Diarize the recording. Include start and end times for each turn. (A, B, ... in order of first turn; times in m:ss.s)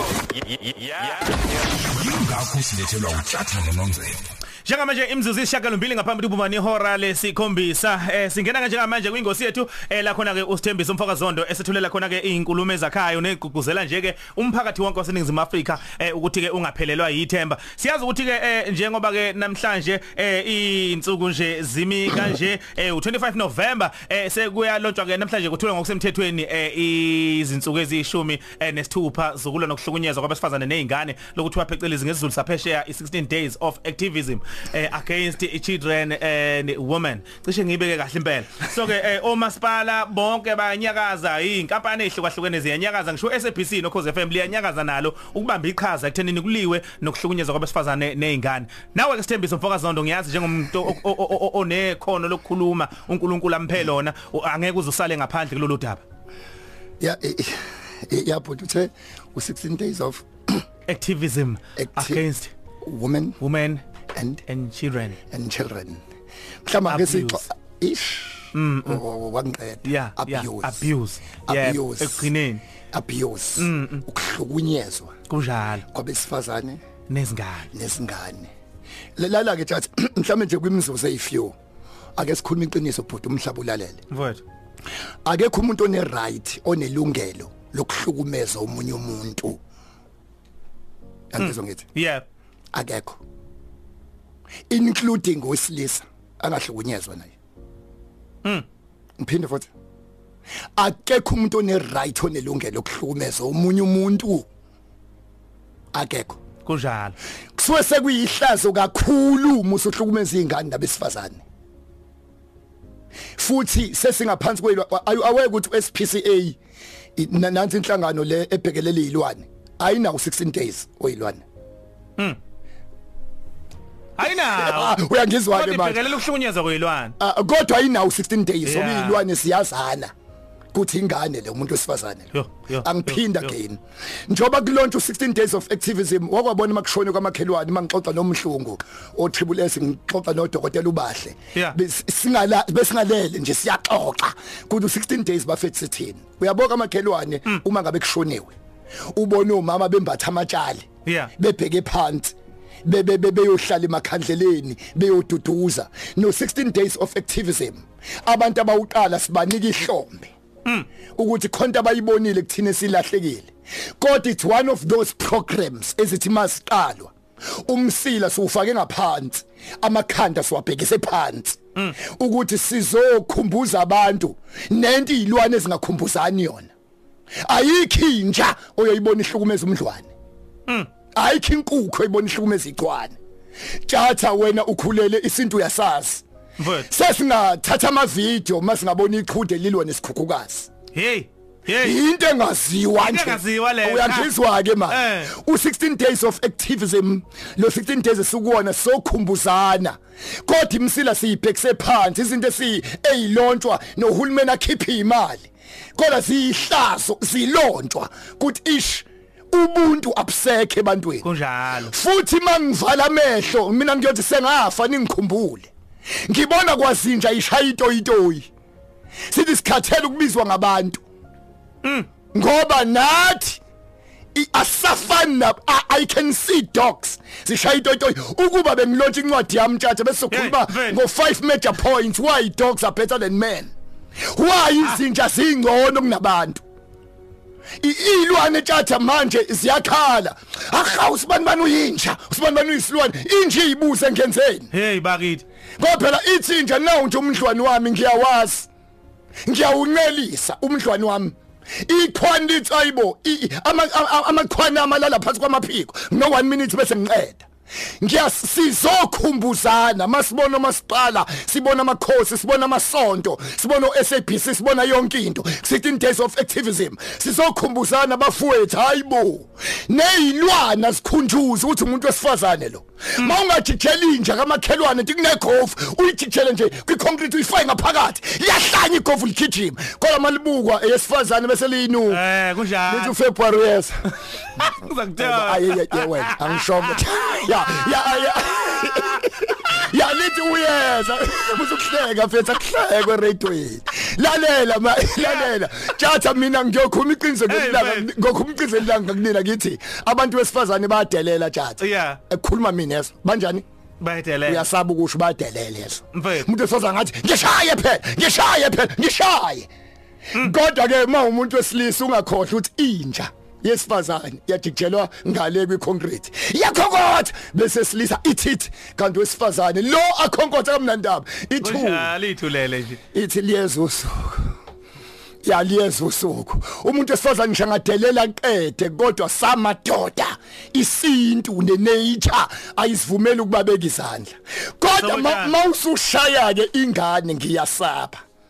0:01.6-0:04.2 A
0:04.6-0:56.0 B
0:57.0-1:00.3 C
1:00.9-1:02.5 B
1:01.8-1:02.2 C
1:02.8-1:03.4 C
1:03.4-1:03.8 B
1:04.1-1:04.4 C
1:04.5-1:05.2 B
1:05.3-1:06.0 C
1:06.6-1:10.9 C
1:06.8-1:07.4 B
1:08.5-1:09.0 B
1:09.8-1:12.6 B
1:11.5-1:12.3 C
1:12.9-1:15.1 C
1:13.6-1:14.0 B
1:15.3-1:15.8 B
1:15.9-1:16.8 C
1:17.1-1:17.7 B
1:17.7-1:18.5 C
1:19.2-1:21.5 C
1:22.2-1:24.0 C
1:24.1-1:24.4 B
1:25.2-1:29.6 C
1:31.3-1:31.9 C
1:31.4-1:32.2 B
1:32.7-1:33.2 C
1:34.7-1:37.3 C
1:39.2-1:39.7 C
1:40.8-1:44.4 C
1:45.9-1:46.4 C
1:46.6-1:47.1 B
1:47.6-1:51.4 C
1:53.4-1:56.6 C
1:57.2-2:01.4 C
2:04.2-2:07.2 B
2:04.3-2:06.1 C
2:07.2-2:10.1 C
2:08.6-2:09.2 B
2:10.7-2:28.5 C
2:12.3-2:13.6 B
2:29.1-2:30.8 C
2:31.0-2:31.3 B
2:31.4-2:40.3 C
2:41.2-2:56.7 C
2:57.4-3:00.1 C
3:01.1-3:03.1 C
3:03.9-3:06.2 C
3:06.6-3:06.9 B
3:06.8-3:10.7 C
3:10.9-3:12.0 B
3:11.8-3:31.3 C
3:13.0-3:14.3 B
3:14.9-3:15.3 B
3:31.2-3:31.9 B
3:31.8-3:35.7 C
3:36.2-3:38.5 C
3:39.3-3:41.0 C
3:41.8-3:42.1 B
3:42.3-3:43.6 C
3:44.3-3:53.7 C
3:50.3-3:51.0 B
3:54.3-3:56.6 C
3:57.8-4:04.7 C
4:04.7-4:05.4 B
4:05.8-4:08.7 C
4:09.4-4:11.4 C
4:11.9-4:17.4 C
4:18.0-4:42.2 C
4:42.1-4:43.2 B
4:42.8-4:44.1 C
4:44.5-4:47.5 B
4:45.2-5:03.6 C
4:48.7-4:49.2 B
4:57.5-4:58.1 B
5:01.8-5:02.2 B
5:04.0-5:04.6 B
5:04.4-5:09.7 C
5:06.1-5:06.5 B
5:10.3-5:22.1 C
5:21.6-5:23.0 B
5:23.1-5:24.5 C
5:25.4-5:38.2 C
5:35.0-5:35.5 B